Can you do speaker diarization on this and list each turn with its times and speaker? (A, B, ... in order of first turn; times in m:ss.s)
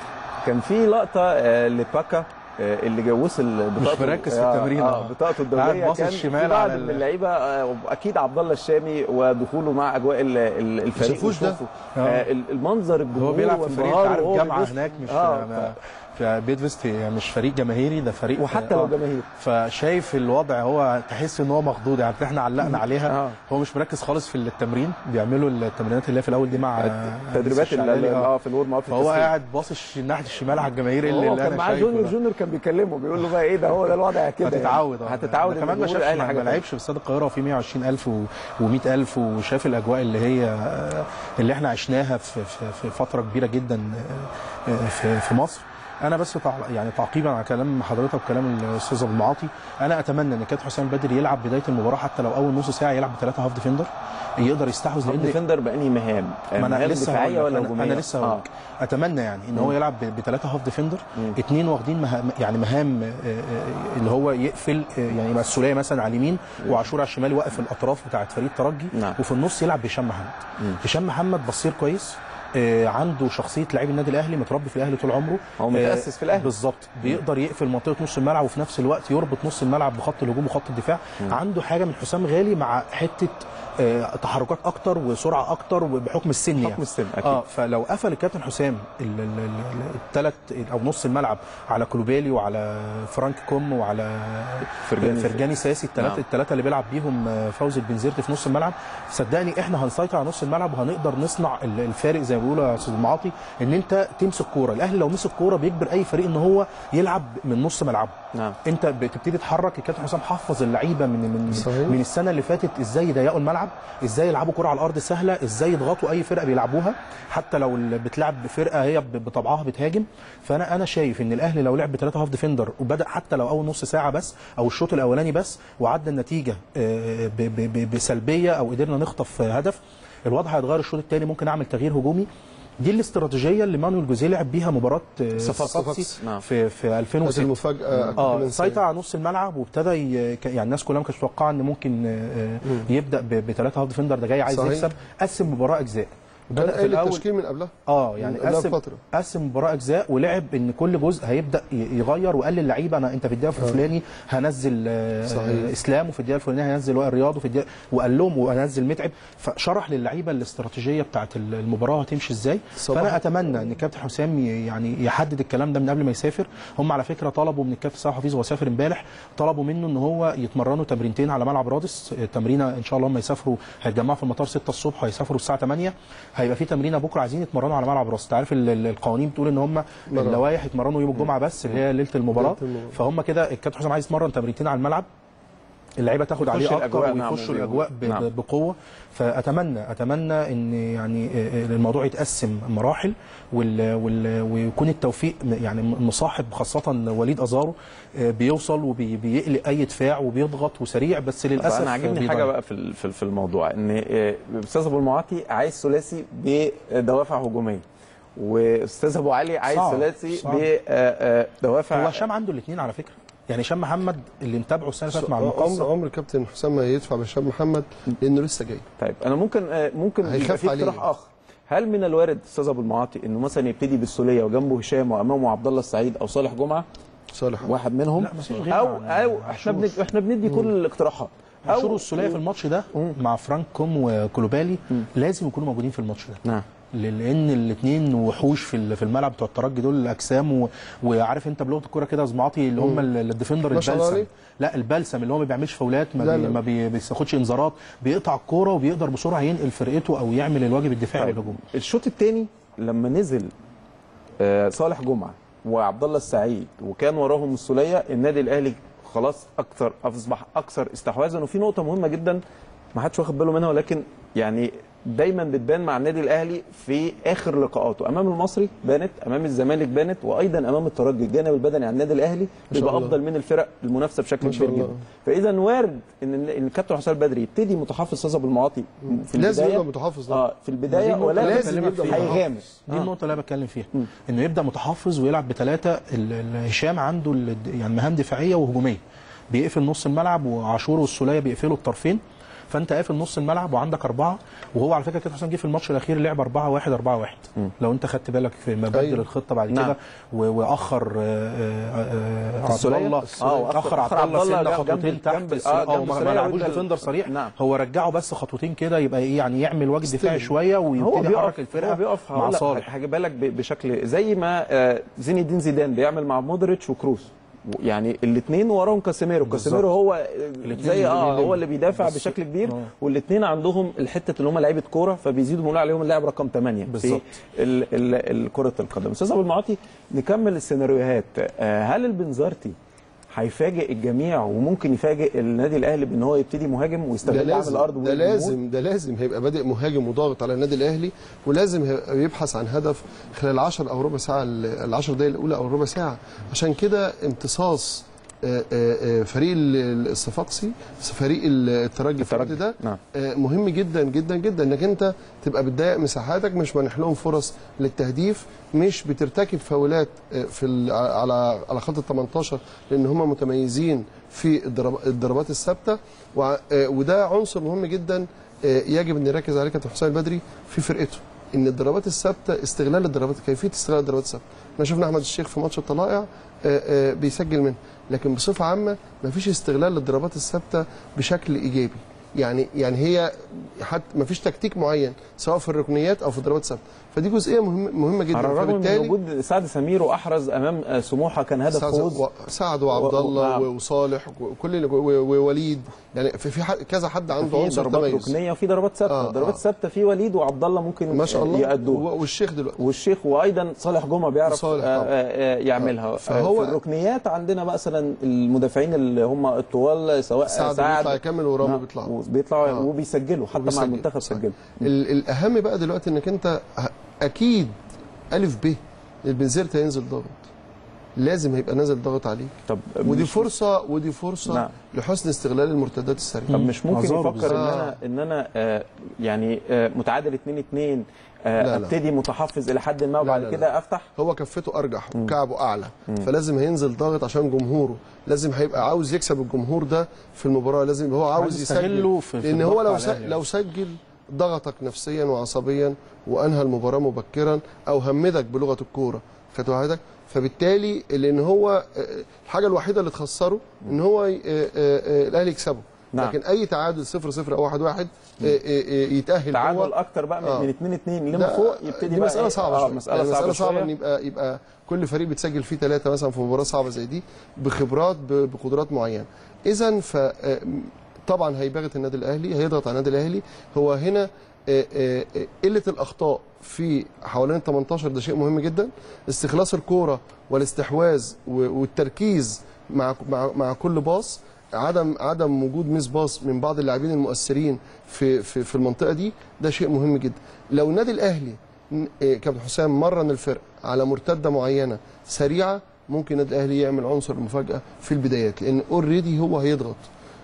0:00.4-0:15.8 A
0:03.8-0:07.0 B
0:11.0-0:11.6 C
0:12.0-0:12.2 B
0:13.1-0:28.3 B
0:18.4-0:19.2 A
0:23.0-0:23.4 A
0:26.8-0:29.3 A
0:28.9-0:32.1 B
0:31.0-0:36.6 A
0:34.4-0:55.4 B
0:55.0-0:58.4 A
0:56.6-2:12.3 B
1:08.9-1:09.2 A
1:15.6-1:16.5 A
1:26.6-1:27.4 A
1:34.8-1:35.4 A
1:51.6-1:52.0 C
2:12.8-2:17.5 B
2:15.4-2:16.1 C
2:16.2-2:16.4 A
2:17.2-2:18.8 C
2:18.1-2:27.2 B
2:24.5-2:24.9 C
2:26.5-2:29.0 C
2:27.9-3:05.1 B
2:33.6-2:33.8 C
2:35.3-2:35.7 C
2:42.8-2:43.2 C
3:00.1-3:00.4 C
3:02.3-3:03.0 C
3:06.0-3:22.5 B
3:06.4-3:08.3 A
3:21.6-3:27.8 A
3:28.4-3:32.2 A
3:29.7-3:30.7 B
3:31.9-3:35.9 B
3:35.1-3:38.8 C
3:39.0-3:46.8 A
3:40.2-3:41.0 C
3:47.3-3:47.7 C
3:47.6-3:52.4 A
3:48.2-3:50.0 B
3:51.6-3:56.4 B
3:56.9-4:11.6 B
4:02.8-4:03.0 C
4:03.7-4:04.3 C
4:06.2-4:06.6 C
4:11.2-4:13.5 A
4:14.4-4:22.4 A
4:22.9-4:43.1 A
4:32.7-4:33.2 C
4:34.4-4:35.0 C
4:39.3-4:40.4 C
4:40.9-4:49.0 B
4:41.3-4:42.4 C
4:49.5-5:12.9 B
4:58.9-4:59.2 C
4:59.7-4:59.9 A
5:02.6-5:07.5 A
5:10.0-5:10.5 C
5:11.0-5:32.8 A
5:19.4-5:19.8 B
5:20.6-5:22.9 B
5:26.9-5:27.3 B
5:33.3-5:38.6 A
5:37.2-6:29.1 C
5:52.2-5:53.0 A
6:28.3-6:32.2 A
6:31.7-6:38.3 C
6:32.9-6:33.6 A
6:37.4-6:42.0 A
6:39.1-6:39.6 C
6:41.1-6:42.8 C
6:42.8-6:54.9 A
6:44.4-6:45.1 C
6:45.8-6:46.8 C
6:50.5-6:52.1 C
6:53.5-6:57.8 C
6:58.3-7:00.4 C
7:01.2-7:06.6 C
7:02.7-7:03.5 A
7:06.5-7:14.1 A
7:06.5-7:07.8 B
7:07.4-7:07.9 C
7:11.6-7:11.9 C
7:13.2-7:39.9 C
7:21.3-7:23.4 B
7:39.5-7:43.9 A
7:40.4-7:40.7 C
7:41.3-8:20.0 C